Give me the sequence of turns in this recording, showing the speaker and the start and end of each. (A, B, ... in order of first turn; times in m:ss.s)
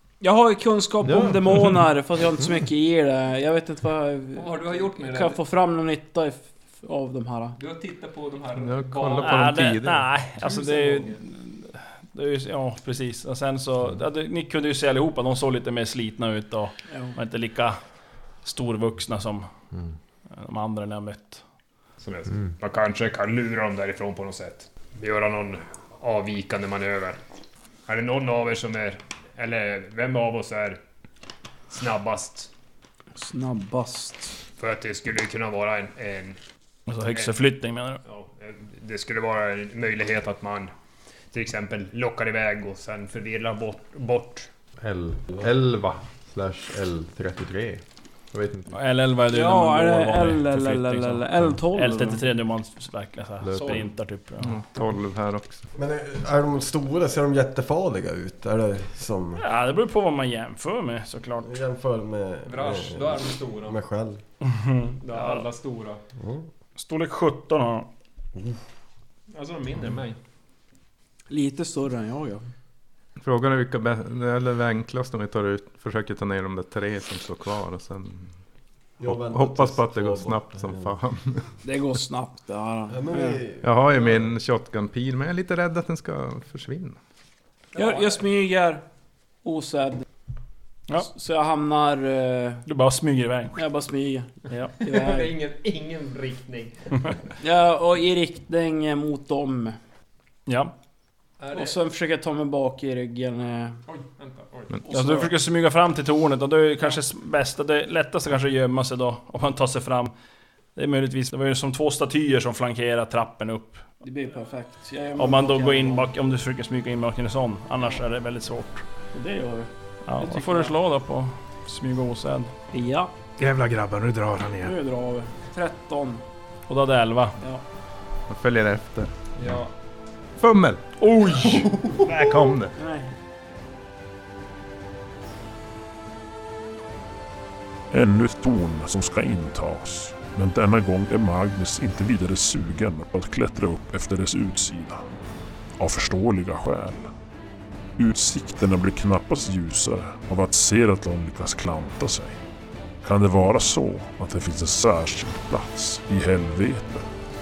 0:00.2-0:07.5 A
0:01.0-0:02.6 B
0:04.3-0:05.4 C
0:07.5-0:09.6 C
0:08.6-0:10.1 D
0:09.2-0:17.8 E
0:10.4-0:11.2 C
0:16.9-0:17.2 A
0:18.4-0:19.5 E
0:20.3-0:21.4 E
0:22.0-0:27.2 F
0:27.9-0:30.8 F
0:31.7-0:32.5 F
0:33.1-0:34.4 A
0:34.6-0:36.4 F
0:36.9-0:38.0 E
0:38.0-0:40.7 F
0:41.3-0:44.5 F
0:44.8-0:47.8 B
0:48.3-0:48.7 B
0:48.7-0:54.6 E
0:49.3-0:52.2 A
0:53.4-0:53.8 B
0:54.4-0:55.6 D
0:55.8-0:59.4 G
0:59.4-1:01.5 E
1:01.4-1:04.2 G
1:02.4-1:03.8 C
1:04.4-1:05.4 E
1:05.0-1:06.0 C
1:06.2-1:06.5 G
1:06.8-1:07.9 E
1:09.3-1:10.2 C
1:11.3-1:12.4 A
1:13.2-1:18.3 D
1:19.0-1:21.0 G
1:19.0-1:21.5 D
1:21.6-1:23.4 A
1:22.9-1:24.3 G
1:23.6-1:27.0 D
1:27.7-1:28.2 C
1:27.8-1:28.8 A
1:29.4-1:30.0 A
1:31.0-1:32.6 A
1:32.6-1:33.6 E
1:33.5-1:35.3 A
1:34.5-1:34.7 E
1:34.8-1:36.8 C
1:37.4-1:39.8 A
1:40.5-1:40.7 E
1:41.4-1:41.8 C
1:41.5-1:43.8 A
1:43.9-1:44.8 C
1:44.8-1:45.3 A
1:44.9-1:50.1 E
1:50.7-1:53.9 E
1:54.0-1:56.1 A
1:55.2-1:58.8 E
1:59.1-2:00.7 A
2:00.0-2:02.5 E
2:02.7-2:03.1 A
2:03.4-2:04.8 D
2:04.6-2:06.2 A
2:06.7-2:07.4 E
2:08.3-2:09.5 D
2:09.4-2:09.7 C
2:10.4-2:10.8 D
2:11.0-2:11.8 E
2:12.0-2:12.7 D
2:12.8-2:13.1 A
2:17.9-2:25.0 H
2:25.8-2:27.1 H
2:28.0-2:32.4 H
2:33.0-2:37.0 H